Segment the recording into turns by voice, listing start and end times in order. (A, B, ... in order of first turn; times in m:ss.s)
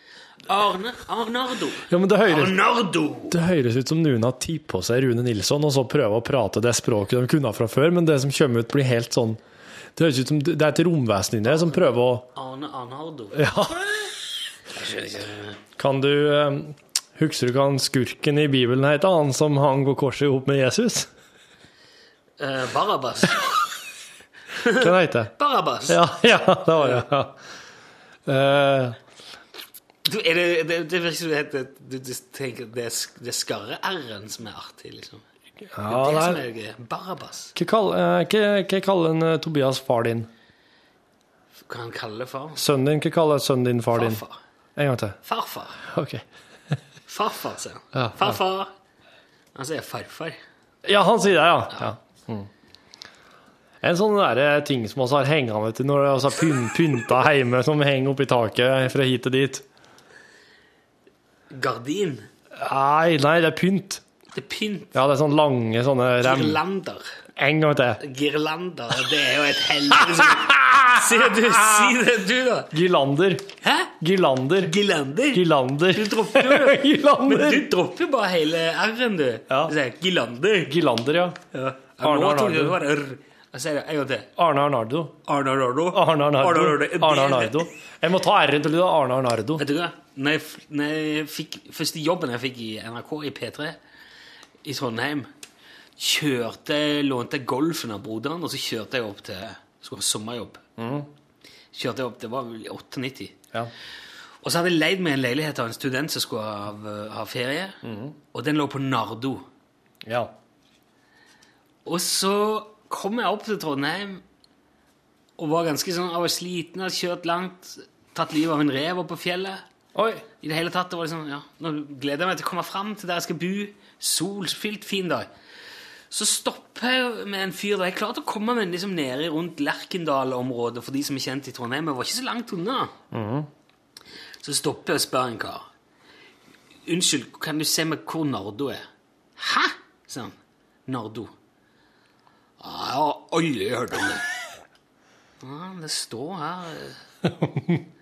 0:00.4-0:03.4 A
0:01.9-0:02.6 B
0:03.3-0:09.4 B
0:10.0-0:12.3 B
0:11.4-0:13.5 A
0:13.3-0:13.9 B
0:14.7-0:15.6 A
0:15.8-0:21.1 B
0:22.4-0:23.6 A
0:24.5-0:27.1 A
0:24.7-0:25.3 B
0:25.9-0:27.4 B
0:28.3-0:29.0 B
0:30.0-0:35.2 A
0:35.7-0:36.4 B
0:35.8-0:37.5 A
0:37.6-0:40.3 B
0:41.6-0:42.6 A
0:42.6-0:44.2 B
0:43.9-0:44.4 A
0:44.8-0:45.2 B
0:45.2-0:45.8 A
0:45.8-0:46.2 B
0:47.1-0:48.7 A
0:47.9-0:48.4 B
0:49.5-0:50.4 A
0:50.8-0:52.5 B
0:53.8-0:59.6 B
1:01.5-1:02.3 A
1:02.6-1:04.0 B
1:04.3-1:05.0 A
1:04.9-1:06.6 B
1:06.2-1:07.0 A
1:07.4-1:08.0 B
1:08.0-1:12.7 A
1:10.1-1:12.0 B
1:12.7-1:13.5 B
1:13.6-1:13.9 A
1:14.0-1:14.7 B
1:14.6-1:20.7 A
1:15.3-1:17.7 B
1:19.5-1:19.7 B
1:20.7-1:21.4 B
1:21.5-1:24.3 A
1:22.0-1:22.8 B
1:24.4-1:25.2 B
1:25.2-1:27.7 A
1:25.9-1:29.6 B
1:29.6-1:33.8 A
1:34.6-1:35.3 A
1:36.0-1:40.6 A
1:40.8-1:41.1 B
1:41.7-1:43.4 A
1:44.4-1:47.8 A
1:47.8-1:48.1 B
1:48.3-1:49.4 A
1:50.0-1:50.3 B
1:51.8-1:54.2 A
1:55.4-1:59.6 A
1:59.9-2:00.2 B
2:00.4-2:05.3 A
2:06.1-2:12.9 A
2:13.1-2:13.5 B
2:14.4-2:15.7 A
2:16.8-2:18.8 A
2:19.4-2:20.4 A
2:20.9-2:21.3 A
2:22.6-2:24.2 A
2:25.4-2:27.0 A